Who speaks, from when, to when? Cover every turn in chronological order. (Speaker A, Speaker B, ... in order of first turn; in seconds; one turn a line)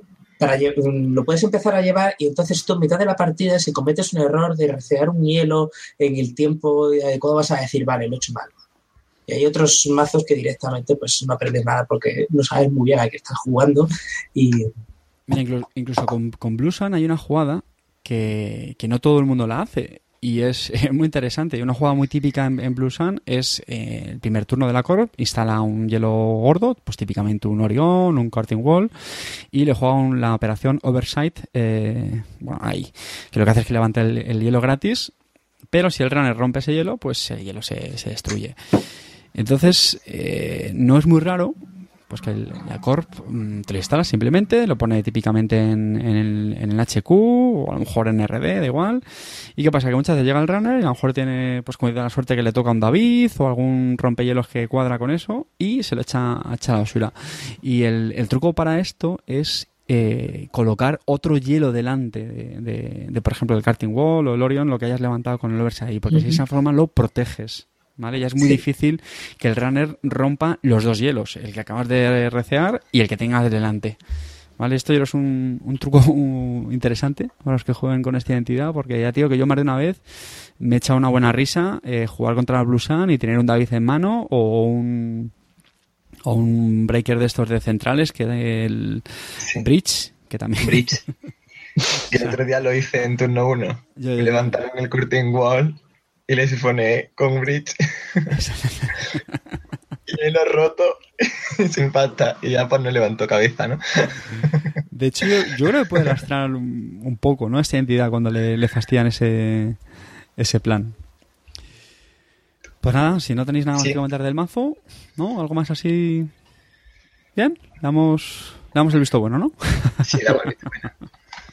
Speaker A: 0.4-8.5
Speaker A: 9.3-14.7
Speaker B: 15.3-35.1
Speaker B: 35.7-38.6
Speaker B: 39.3-41.6
Speaker B: 42.1-49.0
Speaker B: 49.6-74.0
Speaker A: 66.1-66.4
Speaker B: 74.6-85.3
Speaker B: 86.3-91.0
Speaker C: 89.4-89.7
Speaker C: 90.6-91.0
Speaker B: 92.0-92.4
Speaker C: 92.1-98.3
Speaker B: 94.0-94.6
Speaker B: 98.3-99.4
Speaker C: 100.1-104.7
Speaker B: 104.9-109.8
Speaker B: 110.4-111.0
Speaker B: 112.8-116.3
Speaker B: 117.4-120.5
Speaker C: 120.0-120.9